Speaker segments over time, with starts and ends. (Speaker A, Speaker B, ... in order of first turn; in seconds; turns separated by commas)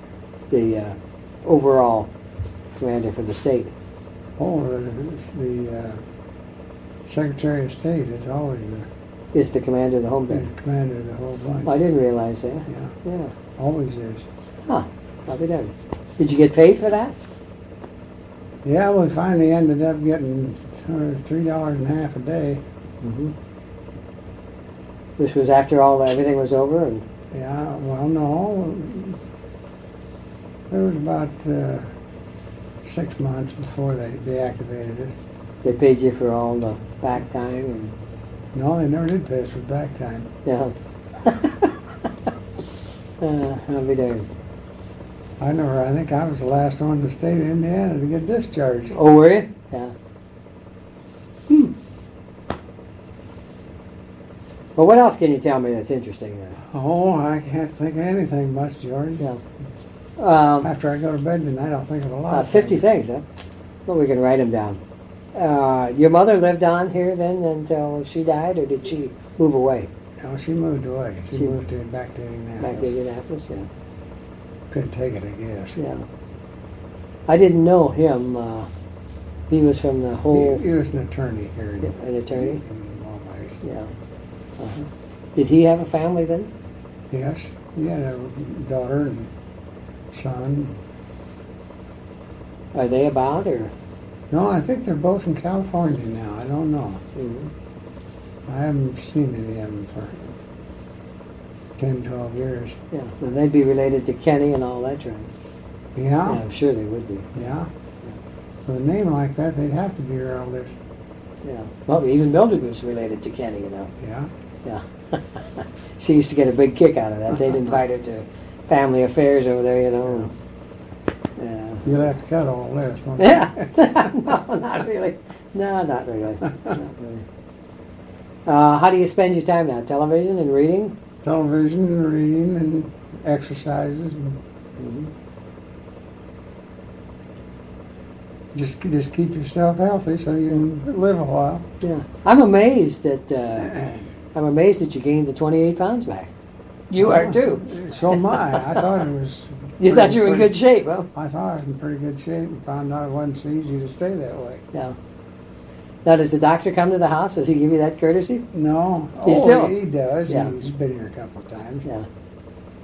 Speaker A: 0.5-2.1, Speaker A: 2.8-3.7, Speaker B: 4.4-6.0, Speaker B: 7.0-8.9, Speaker A: 9.3-10.4, Speaker B: 10.3-11.8, Speaker A: 11.6-13.3, Speaker B: 12.7-12.9, Speaker B: 13.6-14.2, Speaker A: 14.7-17.1, Speaker B: 18.6-22.6, Speaker A: 23.0-23.3, Speaker A: 25.2-27.0, Speaker B: 27.3-29.2, Speaker B: 30.7-31.8, Speaker B: 32.8-35.2, Speaker A: 35.6-37.9, Speaker B: 38.5-40.3, Speaker A: 40.4-42.3, Speaker A: 43.2-44.3, Speaker B: 45.4-49.0, Speaker A: 48.9-49.9, Speaker A: 54.8-56.6, Speaker B: 56.6-59.2, Speaker A: 60.2-60.7, Speaker B: 60.6-62.9, Speaker A: 62.3-63.2, Speaker A: 63.9-64.8, Speaker A: 65.3-69.9, Speaker B: 70.2-72.9, Speaker A: 72.6-73.7, Speaker B: 74.7-75.8, Speaker A: 75.8-76.0, Speaker A: 77.3-78.7, Speaker A: 79.5-80.6, Speaker B: 80.3-83.6, Speaker A: 81.8-82.6, Speaker A: 83.6-83.9, Speaker A: 84.6-86.5, Speaker B: 87.1-89.3, Speaker B: 90.1-90.8, Speaker A: 92.7-93.7, Speaker B: 94.3-97.0, Speaker A: 97.1-97.5, Speaker B: 98.5-100.3, Speaker B: 101.8-102.8, Speaker A: 102.9-105.3, Speaker B: 105.9-106.4, Speaker A: 106.2-107.5, Speaker B: 107.3-107.7, Speaker B: 108.7-110.8, Speaker A: 111.4-113.9, Speaker B: 114.0-114.3, Speaker A: 114.6-120.3, Speaker A: 121.4-121.9, Speaker B: 121.8-124.3, Speaker A: 123.2-127.2, Speaker A: 128.4-130.9, Speaker B: 131.2-134.4, Speaker A: 134.8-135.1, Speaker B: 138.5-141.7, Speaker A: 141.8-146.3, Speaker B: 143.6-144.0, Speaker A: 146.9-147.7, Speaker B: 147.0-150.6, Speaker A: 149.8-151.1, Speaker B: 151.1-154.6, Speaker A: 156.0-158.4, Speaker B: 158.5-161.8, Speaker A: 159.2-159.7, Speaker A: 160.3-160.5